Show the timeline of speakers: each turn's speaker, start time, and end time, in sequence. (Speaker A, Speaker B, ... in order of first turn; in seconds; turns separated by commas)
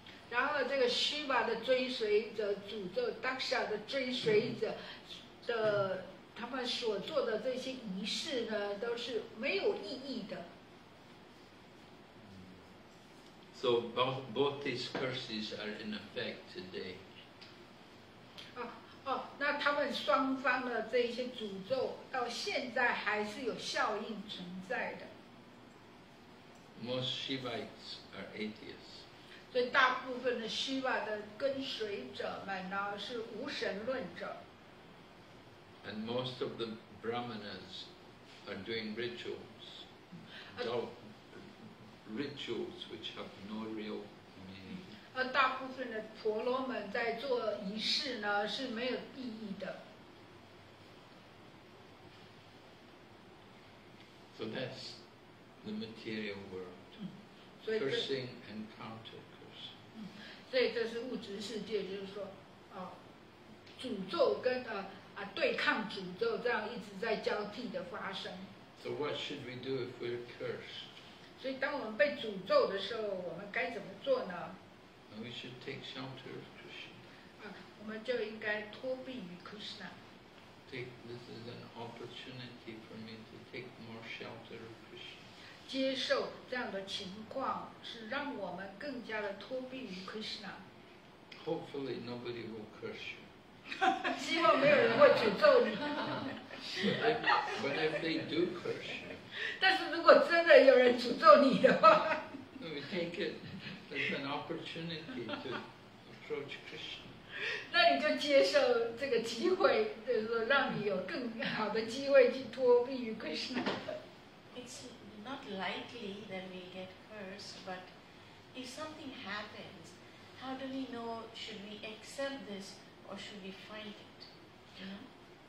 Speaker A: 0.3-10.5, Speaker B: 12.2-12.6, Speaker B: 13.5-17.1, Speaker A: 18.6-25.1, Speaker B: 26.8-29.1, Speaker A: 29.5-34.4, Speaker B: 35.8-37.9, Speaker B: 38.4-39.9, Speaker B: 40.5-45.0, Speaker A: 45.1-49.8, Speaker B: 54.3-55.0, Speaker B: 55.6-57.0, Speaker A: 57.0-58.1, Speaker B: 57.7-59.7, Speaker A: 60.0-63.0, Speaker A: 63.8-68.5, Speaker B: 68.8-71.0, Speaker A: 71.4-74.6, Speaker B: 75.1-77.0, Speaker A: 77.4-80.0, Speaker B: 80.7-85.3, Speaker A: 85.7-90.6, Speaker B: 91.4-93.3, Speaker A: 94.0-96.3, Speaker B: 94.6-95.5, Speaker B: 96.7-99.2, Speaker A: 99.4-102.3, Speaker B: 102.6-107.2, Speaker A: 107.4-114.0, Speaker C: 114.5-117.9, Speaker C: 118.5-125.1